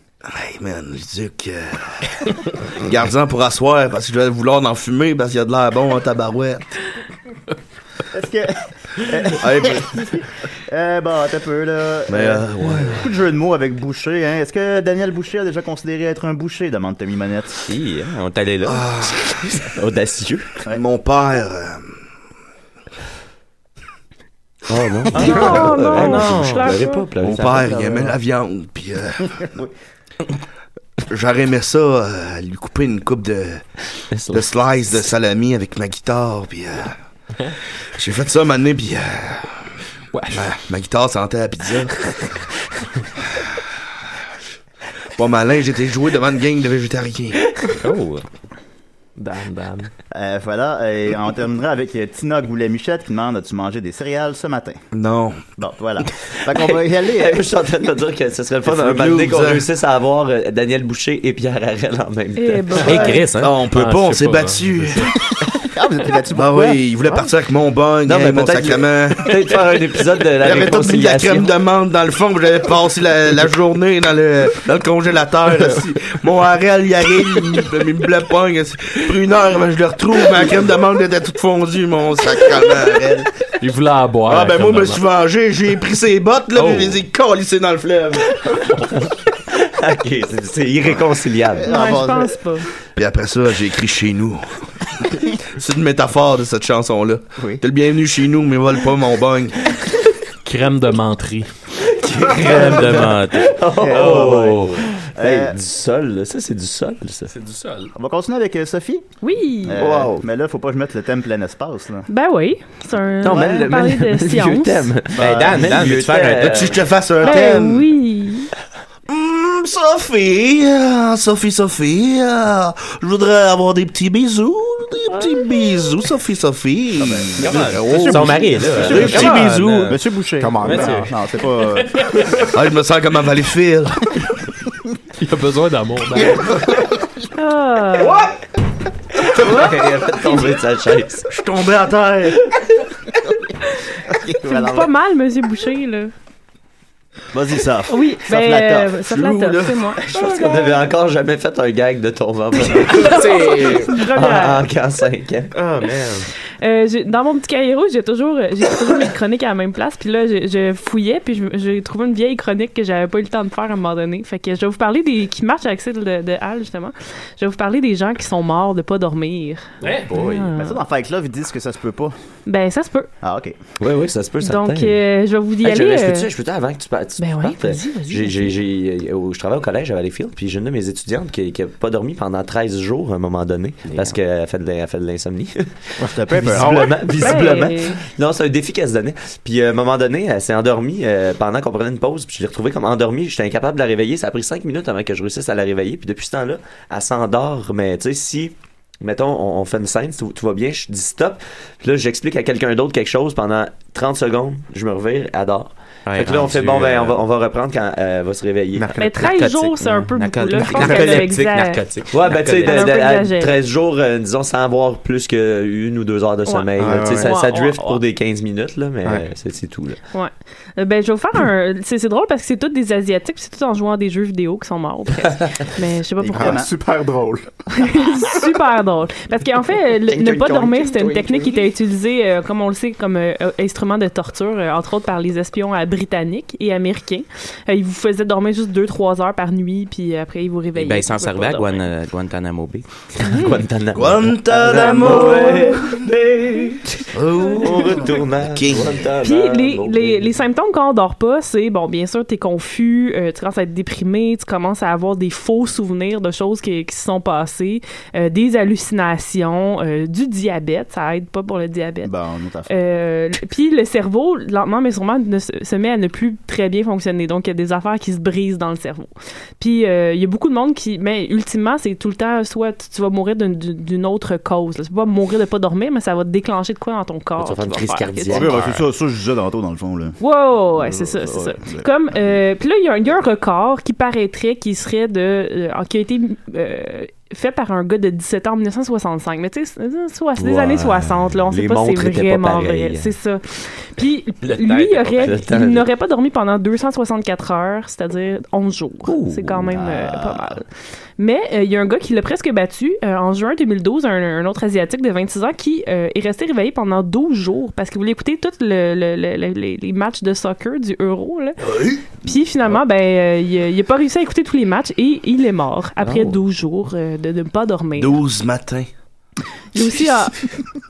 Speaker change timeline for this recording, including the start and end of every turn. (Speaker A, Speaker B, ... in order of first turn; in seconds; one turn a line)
Speaker A: 0.3-6.7
Speaker B: 8.1-17.6
Speaker A: 9.3-9.9
Speaker A: 12.1-13.1
Speaker C: 17.7-18.9
Speaker A: 18.6-19.4
Speaker D: 19.6-20.6
Speaker A: 20.7-21.9
Speaker D: 24.7-27.9
Speaker C: 25.1-26.9
Speaker E: 25.1-27.1
Speaker A: 27.2-29.4
Speaker B: 27.6-28.1
Speaker B: 29.3-29.7
Speaker A: 31.1-33.6
Speaker D: 34.1-34.5
Speaker A: 34.3-37.0
Speaker A: 38.0-39.6
Speaker F: 40.1-40.5
Speaker A: 40.3-42.2
Speaker A: 45.2-47.4
Speaker C: 47.8-48.2
Speaker F: 49.2-49.9
Speaker B: 50.1-54.8
Speaker A: 54.9-55.4
Speaker B: 55.6-57.5
Speaker D: 56.5-63.2
Speaker A: 58.6-59.6
Speaker E: 62.4-63.3
Speaker C: 62.8-63.5
Speaker B: 62.9-63.2
Speaker A: 63.3-65.2
Speaker F: 63.7-65.2
Speaker B: 65.5-67.3
Speaker A: 66.3-69.4
Speaker D: 68.1-71.5
Speaker A: 70.4-83.3
Speaker F: 83.6-85.0
Speaker A: 84.3-88.3
Speaker F: 86.6-87.0
Speaker D: 88.9-92.0
Speaker B: 91.6-92.4
Speaker E: 91.7-92.7
Speaker A: 93.0-99.6
Speaker B: 97.4-97.6
Speaker F: 100.5-101.5
Speaker D: 101.8-107.3
Speaker C: 102.3-104.8
Speaker B: 103.8-105.6
Speaker F: 107.3-107.9
Speaker B: 108.0-109.1
Speaker E: 109.2-109.8
Speaker B: 109.6-112.1
Speaker D: 109.8-110.2
Speaker E: 112.1-114.9
Speaker D: 113.2-116.8
Speaker B: 113.3-113.7
Speaker B: 115.2-115.8
Speaker C: 115.2-116.9
Speaker A: 116.3-117.9
Speaker E: 117.2-118.5
Speaker A: 119.1-130.0
Speaker B: 127.0-132.2
Speaker C: 127.4-129.9
Speaker D: 127.5-127.7
Speaker G: 130.4-131.1
Speaker C: 130.6-131.1
Speaker A: 132.4-134.2
Speaker F: 135.2-136.8
Speaker E: 137.3-138.3
Speaker D: 139.2-141.3
Speaker E: 139.3-140.6
Speaker A: 141.3-142.4
Speaker D: 142.4-142.8
Speaker B: 144.1-144.9
Speaker E: 144.4-146.1
Speaker B: 147.3-149.0
Speaker E: 147.9-150.0
Speaker A: 149.0-150.7
Speaker D: 150.1-155.6
Speaker E: 152.8-154.7
Speaker C: 153.2-153.8
Speaker C: 155.5-156.3
Speaker E: 156.6-170.8
Speaker F: 169.8-170.3
Speaker D: 170.1-170.5
Speaker B: 170.6-172.1
Speaker E: 172.5-173.1
Speaker B: 173.2-173.6
Speaker D: 173.8-175.0
Speaker E: 174.4-176.3
Speaker D: 175.6-209.0
Speaker E: 177.2-178.6
Speaker C: 183.9-184.2
Speaker B: 186.0-186.9
Speaker A: 186.2-186.9
Speaker E: 187.1-188.0
Speaker C: 206.1-207.2
Speaker G: 208.8-209.4
Speaker E: 208.9-211.9
Speaker C: 209.2-212.9
Speaker G: 210.7-211.2
Speaker D: 212.1-220.0
Speaker E: 212.4-213.6
Speaker E: 216.4-218.0
Speaker G: 216.8-217.3
Speaker G: 219.0-219.3
Speaker E: 220.1-226.6
Speaker B: 226.2-226.7
Speaker G: 226.3-227.5
Speaker E: 227.7-241.9
Speaker C: 230.1-231.5
Speaker C: 240.8-242.8
Speaker E: 243.2-243.7
Speaker D: 243.2-250.3
Speaker A: 243.9-246.0
Speaker A: 247.1-249.1
Speaker E: 249.2-262.1
Speaker B: 262.0-262.7
Speaker E: 262.7-278.6
Speaker D: 277.4-278.9
Speaker B: 278.3-280.2
Speaker E: 280.2-300.7
Speaker B: 280.8-281.9
Speaker D: 290.4-293.1
Speaker C: 294.5-295.2
Speaker D: 295.0-295.9
Speaker D: 299.1-299.8
Speaker B: 299.7-300.6
Speaker E: 301.2-318.2
Speaker A: 311.7-312.1
Speaker A: 318.0-318.9
Speaker E: 319.7-320.5